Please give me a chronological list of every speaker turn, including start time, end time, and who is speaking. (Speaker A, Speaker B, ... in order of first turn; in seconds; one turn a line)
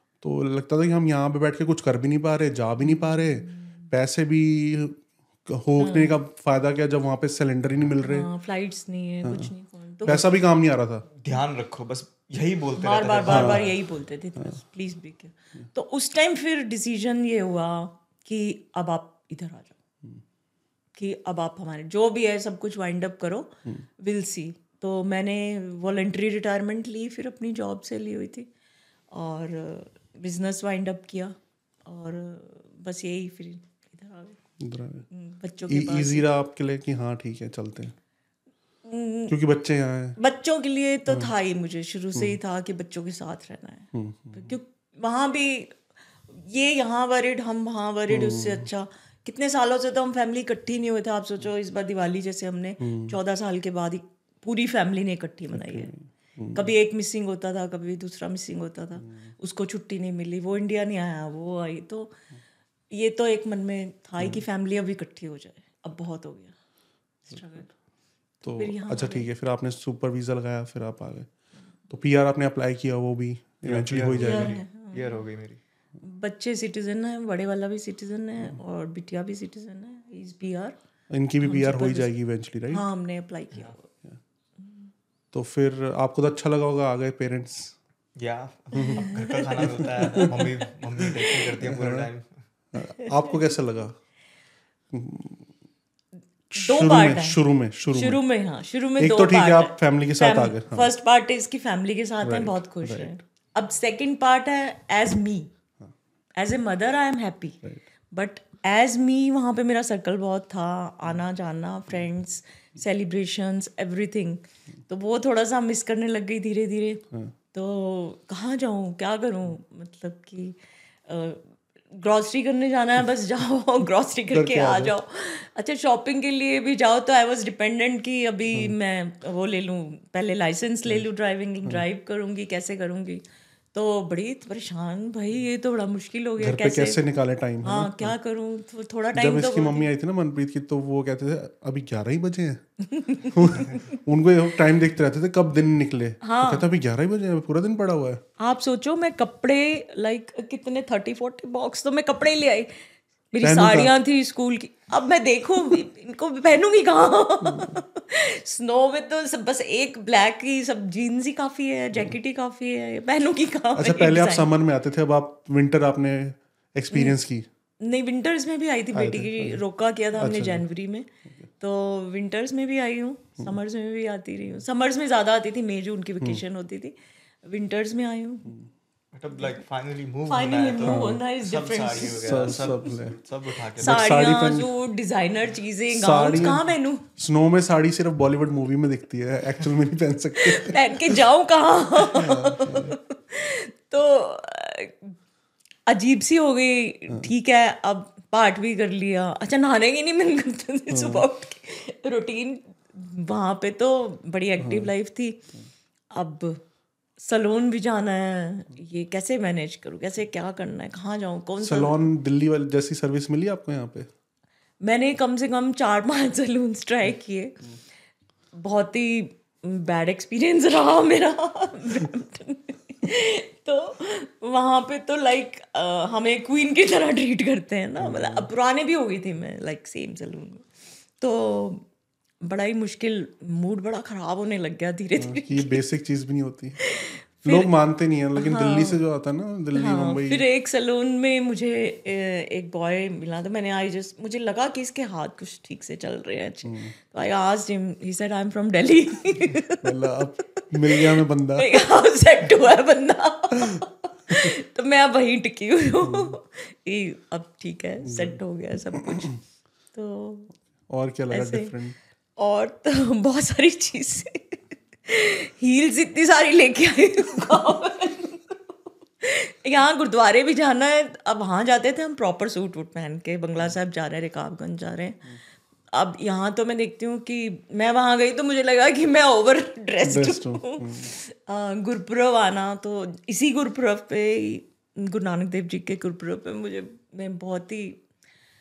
Speaker A: 0.2-8.3
Speaker B: 2.9-3.7
Speaker B: 5.8-6.2
Speaker B: 8.0-10.3
Speaker A: 9.2-9.5
Speaker A: 10.1-11.1
Speaker C: 11.2-13.8
Speaker B: 12.8-19.8
Speaker A: 13.3-13.7
Speaker B: 21.0-28.5
Speaker B: 29.1-34.4
Speaker A: 34.6-35.1
Speaker B: 35.1-36.3
Speaker A: 35.7-38.0
Speaker B: 38.8-39.4
Speaker A: 39.3-40.2
Speaker B: 40.2-55.9
Speaker A: 43.9-44.6
Speaker A: 48.1-48.7
Speaker A: 52.8-53.1
Speaker A: 55.5-56.7
Speaker B: 56.5-62.1
Speaker B: 62.9-66.5
Speaker B: 67.3-67.7
Speaker A: 68.4-71.3
Speaker B: 68.5-69.3
Speaker A: 71.9-74.6
Speaker C: 73.7-75.6
Speaker B: 74.2-75.2
Speaker B: 76.0-80.8
Speaker A: 81.1-82.8
Speaker B: 81.4-82.1
Speaker B: 82.7-83.8
Speaker B: 84.6-84.9
Speaker A: 85.3-87.8
Speaker C: 88.2-92.4
Speaker A: 88.7-90.4
Speaker B: 88.9-90.3
Speaker A: 91.0-92.1
Speaker A: 92.7-94.0
Speaker A: 94.9-95.5
Speaker A: 96.5-98.2
Speaker B: 96.6-105.5
Speaker A: 99.0-100.9
Speaker A: 102.2-103.1
Speaker B: 106.4-137.0
Speaker A: 124.3-125.0
Speaker A: 136.4-138.1
Speaker B: 137.6-139.9
Speaker A: 139.1-142.6
Speaker B: 142.9-143.8
Speaker A: 143.2-148.2
Speaker B: 146.2-146.7
Speaker B: 148.4-152.7
Speaker B: 153.3-164.5
Speaker A: 153.4-153.9
Speaker A: 157.4-157.7
Speaker A: 163.8-167.5
Speaker B: 166.9-167.2
Speaker B: 167.8-171.1
Speaker A: 168.9-169.6
Speaker A: 170.2-170.6
Speaker B: 171.6-178.5
Speaker C: 179.1-184.3
Speaker B: 180.3-182.8
Speaker A: 180.8-181.2
Speaker A: 182.0-183.2
Speaker A: 183.8-184.7
Speaker B: 183.8-187.1
Speaker A: 185.9-186.6
Speaker A: 187.2-191.2
Speaker B: 190.4-195.1
Speaker A: 192.1-193.0
Speaker B: 195.9-205.5
Speaker A: 200.9-201.3
Speaker A: 204.6-204.9
Speaker B: 206.1-206.6
Speaker B: 207.2-212.1
Speaker A: 211.6-214.1
Speaker B: 214.8-217.6
Speaker B: 218.5-230.7
Speaker A: 228.0-228.5
Speaker B: 231.2-231.8
Speaker B: 232.4-235.8
Speaker A: 235.2-236.8
Speaker B: 236.8-237.7
Speaker A: 237.4-240.4
Speaker B: 238.4-239.0
Speaker B: 239.7-250.2
Speaker A: 246.7-246.9
Speaker A: 249.8-251.7
Speaker B: 250.9-259.4
Speaker A: 256.0-256.4
Speaker A: 258.1-258.4
Speaker A: 259.0-259.4
Speaker B: 259.9-260.5
Speaker A: 260.9-262.0
Speaker B: 261.3-261.7
Speaker B: 262.4-275.3
Speaker B: 275.9-288.0
Speaker A: 280.0-281.1